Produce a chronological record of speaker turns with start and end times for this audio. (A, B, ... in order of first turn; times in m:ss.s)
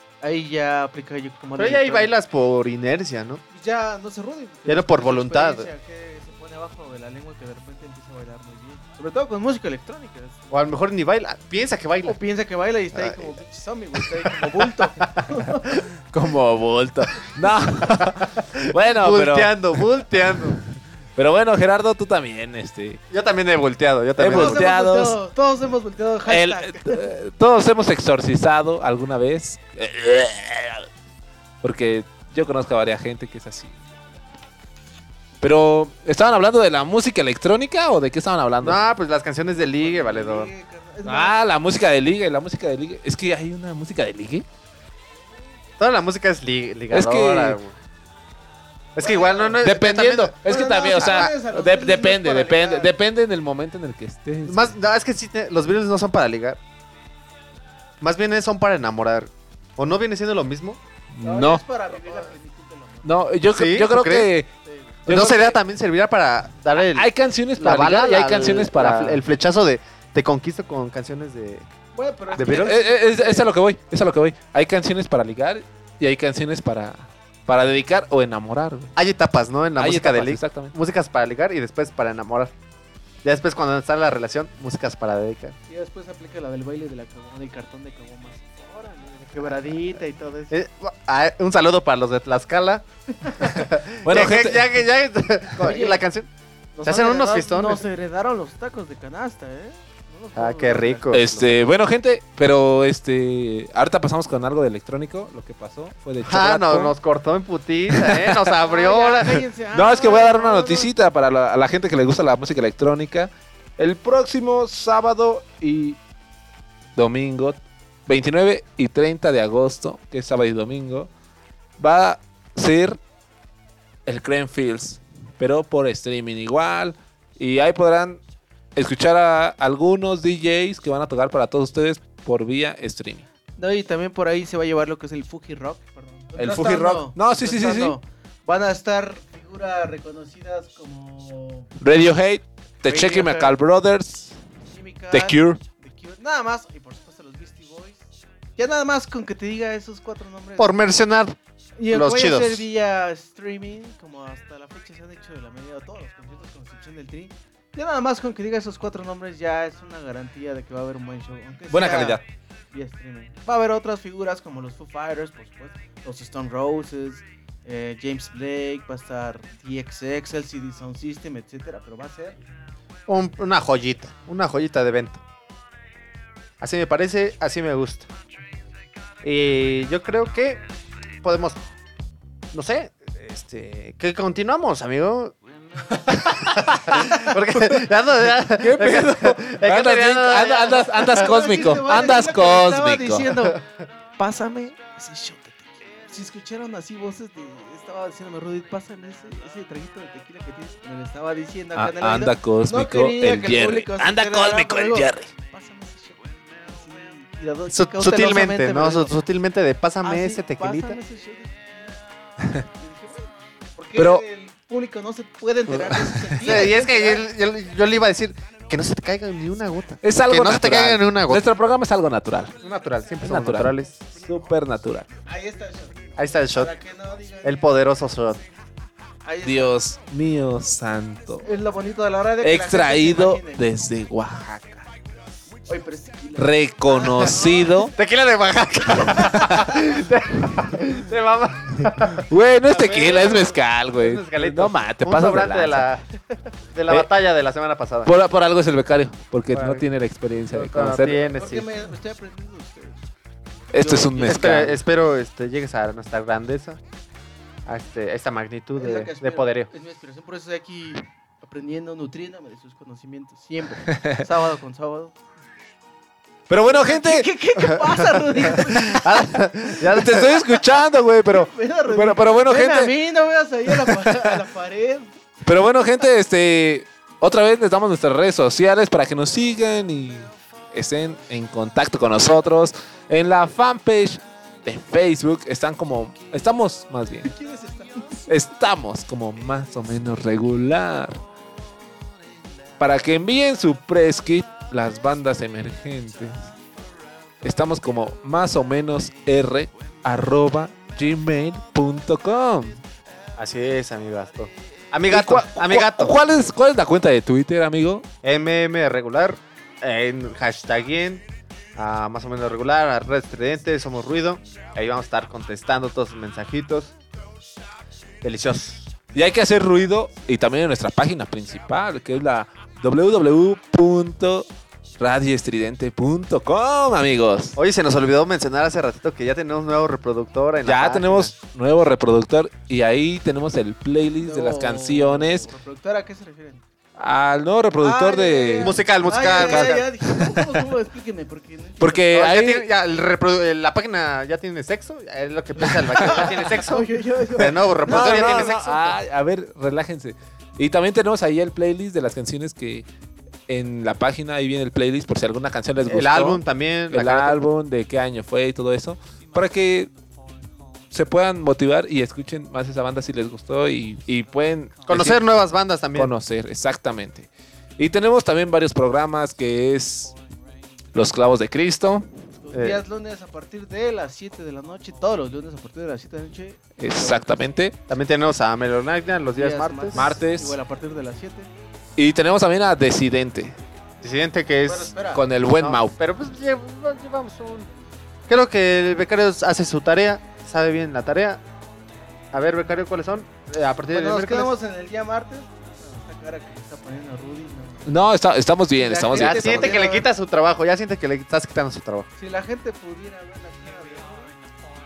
0:00.2-0:02.1 A
0:01.6-0:03.4 B
0:03.5-0:10.4 A
0:04.7-0:05.7 B
0:10.5-0:12.2 B
0:12.0-0:15.8 A
0:12.9-0:13.4 B
0:14.0-0:15.4 B
0:16.1-0:19.8 C
0:17.8-0:20.6 B
0:21.2-0:23.0 C
0:23.1-0:24.7 B
0:24.2-0:25.2 C
0:24.3-0:27.1 A
0:26.3-0:30.9 C
0:31.6-0:33.7 C
0:35.4-0:38.8 C
0:38.6-0:40.5 B
0:39.7-0:41.3 A
0:41.0-0:44.4 C
0:45.8-0:47.7 B
0:46.9-0:47.6 C
0:49.0-0:51.3 B
0:49.0-0:49.6 A
0:49.6-0:54.8 C
0:50.4-0:52.9 A
0:54.4-0:56.6 B
0:58.0-1:00.8 B
1:01.1-1:01.6 C
1:01.2-1:03.3 A
1:03.0-1:04.5 C
1:03.5-1:04.3 B
1:04.6-1:05.0 A
1:05.1-1:05.6 C
1:05.1-1:11.7 B
1:06.8-1:09.2 C
1:12.0-1:13.5 A
1:12.3-1:12.8 B
1:12.4-1:18.9 C
1:19.0-1:22.5 B
1:19.8-1:20.7 C
1:23.2-1:25.6 B
1:25.7-1:30.6 A
1:30.5-1:37.8 B
1:33.2-1:33.6 A
1:34.0-1:34.7 C
1:35.6-1:36.0 A
1:36.8-1:41.1 A
1:40.4-1:41.6 B
1:41.1-1:47.0 C
1:46.2-1:49.4 B
1:47.9-1:48.5 C
1:48.6-1:50.9 A
1:49.7-1:56.0 C
1:57.0-2:01.1 C
2:01.8-2:03.0 C
2:04.1-2:08.2 C
2:08.8-2:13.3 C
2:13.6-2:21.7 A
2:16.4-2:18.0 C
2:21.8-2:24.4 C
2:22.9-2:23.6 A
2:24.7-2:28.0 A
2:25.1-2:25.6 C
2:28.6-2:30.7 A
2:30.6-2:31.4 B
2:31.8-2:42.2 A
2:31.9-2:32.6 B
2:41.7-2:42.2 C
2:42.7-2:52.4 A
2:53.1-2:55.2 B
2:56.6-2:58.1 B
2:59.2-3:00.6 B
3:01.2-3:01.6 B
3:02.5-3:05.4 B
3:06.1-3:11.1 B
3:08.6-3:13.3 C
3:11.0-3:13.6 A
3:14.2-3:29.2 A
3:21.8-3:25.3 C
3:27.7-3:31.0 B
3:30.0-3:32.0 A
3:32.8-3:37.3 A
3:34.0-3:34.2 C
3:36.4-3:41.4 B
3:40.0-3:42.6 C
3:42.6-3:44.1 B
3:43.2-3:45.1 C
3:45.3-3:47.6 A
3:46.2-3:46.8 B
3:47.4-3:48.4 B
3:49.2-3:49.7 A
3:49.4-3:51.4 C
3:51.4-3:53.7 A
3:52.4-3:54.9 C
3:55.6-3:57.8 A
3:56.4-3:57.9 C
3:57.9-4:02.3 B
4:02.3-4:05.9 C
4:02.8-4:03.4 A
4:02.9-4:03.4 B
4:03.9-4:06.0 B
4:06.7-4:08.1 B
4:08.1-4:11.2 C
4:09.5-4:09.9 B
4:10.5-4:11.7 B
4:11.2-4:13.1 A
4:13.7-4:14.8 C
4:13.8-4:14.3 A
4:14.2-4:16.8 B
4:17.7-4:19.7 B
4:18.8-4:25.1 A
4:23.9-4:24.2 C
4:26.5-4:27.3 C
4:26.6-4:29.4 A
4:28.6-4:30.4 B
4:29.9-4:32.9 C
4:31.4-4:35.1 A
4:33.7-4:34.3 C
4:35.4-4:47.3 C
4:47.2-4:48.2 A
4:48.3-4:51.2 C
4:52.8-4:56.4 C
4:57.4-5:02.8 C
5:03.4-5:06.2 B
5:05.1-5:08.0 C
5:08.2-5:11.2 B
5:11.8-5:17.0 B
5:18.2-5:19.1 B
5:19.1-5:24.5 C
5:25.0-5:27.6 C
5:27.6-5:31.3 B
5:30.6-5:35.5 C
5:34.2-5:36.6 A
5:37.0-5:40.3 C
5:37.8-5:42.1 A
5:38.6-5:39.8 B
5:41.8-5:42.6 C
5:42.1-5:49.0 B
5:45.6-5:48.7 A
5:47.9-5:52.9 C
5:53.5-5:59.9 C
5:55.8-5:57.4 B
6:00.9-6:05.2 C
6:04.9-6:06.1 B
6:05.9-6:10.2 C
6:10.9-6:12.1 C
6:12.4-6:17.2 A
6:12.5-6:12.8 B
6:16.8-6:17.8 C
6:17.9-6:20.1 B
6:19.4-6:21.5 A
6:20.0-6:20.6 C
6:22.0-6:23.6 C
6:24.0-6:24.9 B
6:24.7-6:25.2 A
6:25.1-6:25.9 C
6:25.6-6:27.7 B
6:28.3-6:31.4 B
6:32.3-6:34.5 B
6:33.9-6:38.0 A
6:37.9-6:39.8 C
6:38.8-6:40.1 A
6:39.1-6:42.1 B
6:42.2-6:44.3 A